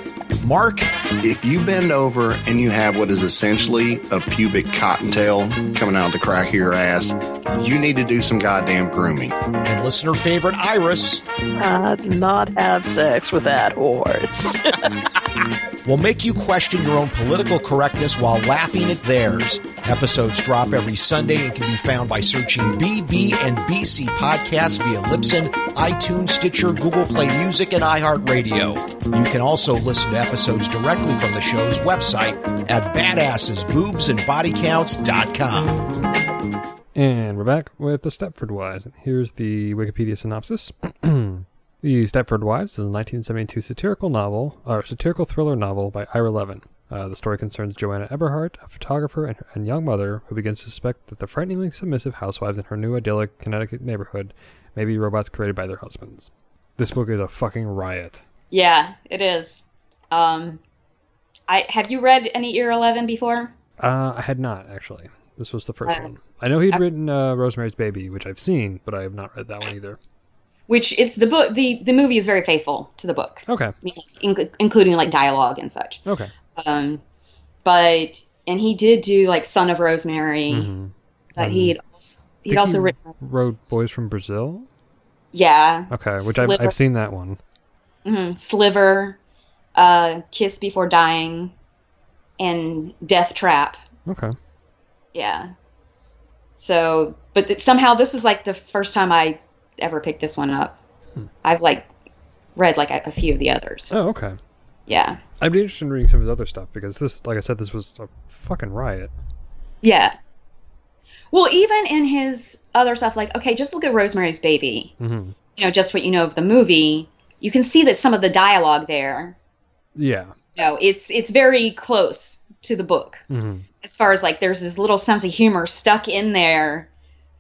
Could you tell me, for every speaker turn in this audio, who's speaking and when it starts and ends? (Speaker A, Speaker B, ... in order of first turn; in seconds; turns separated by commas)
Speaker A: 0.4-0.9, Speaker B: 1.2-9.3, Speaker A: 9.6-11.2, Speaker C: 11.6-14.4, Speaker A: 15.8-35.8, Speaker D: 37.0-58.2, Speaker E: 58.5-60.6, Speaker E: 61.5-63.5, Speaker D: 63.8-70.0, Speaker E: 70.7-76.0, Speaker D: 73.5-73.7, Speaker D: 76.1-76.3, Speaker E: 76.6-77.0, Speaker E: 77.6-80.7, Speaker D: 80.5-81.7, Speaker E: 81.4-83.0, Speaker D: 82.5-84.7, Speaker E: 85.3-86.7, Speaker D: 85.9-87.4, Speaker E: 88.0-89.2, Speaker E: 89.8-91.5, Speaker E: 92.4-93.8, Speaker D: 94.1-94.3, Speaker E: 95.1-95.5, Speaker E: 96.6-100.8, Speaker E: 101.4-101.9, Speaker E: 102.6-104.0, Speaker D: 103.9-104.4, Speaker E: 104.9-105.2, Speaker D: 105.4-109.1, Speaker E: 109.8-110.2, Speaker E: 111.3-114.9, Speaker D: 115.0-115.3, Speaker E: 115.6-119.4, Speaker D: 120.0-120.3, Speaker E: 120.6-123.2, Speaker D: 123.3-123.6, Speaker E: 123.8-126.9